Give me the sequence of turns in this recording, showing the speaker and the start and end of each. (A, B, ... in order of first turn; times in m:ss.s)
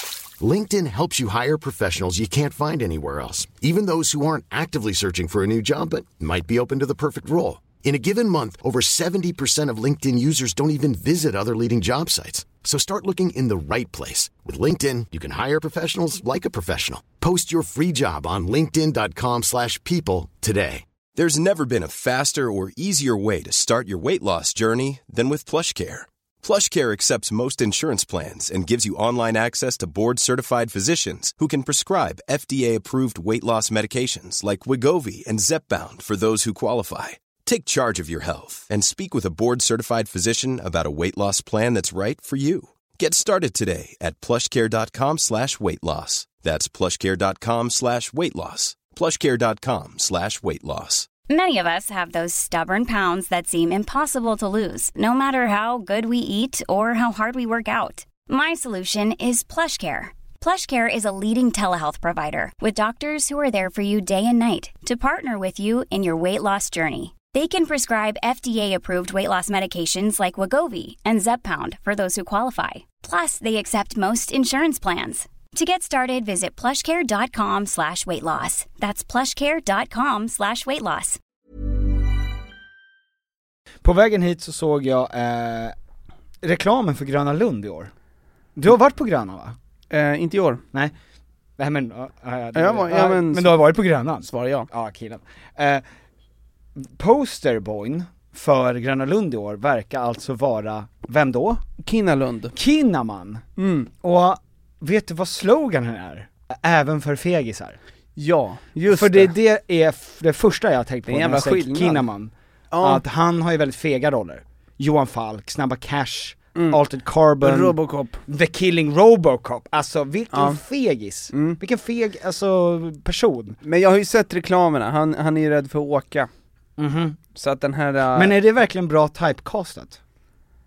0:00.4-0:20.8 A
0:21.2-0:51.1 B
0:51.3-1:21.2 C
1:23.8-1:25.7 D
1:26.4-1:27.9 D
1:28.6-1:29.6 D
1:29.9-1:30.6 E
1:31.6-1:35.8 D
1:32.5-1:33.6 E
1:34.2-1:34.7 E
1:36.8-1:41.6 D
1:41.8-1:42.6 E
1:42.5-1:43.4 D
1:43.6-1:43.9 E
1:44.0-1:47.8 D
1:48.2-1:49.3 E
1:48.9-2:03.6 D
1:51.1-1:52.0 E
1:52.7-1:53.0 E
1:56.5-1:56.8 E
1:57.4-1:58.2 E
2:00.3-2:00.6 E
2:01.3-2:01.6 E
2:03.6-2:06.3 E
2:06.8-2:07.2 D
2:07.3-2:08.3 E
2:08.1-2:10.0 D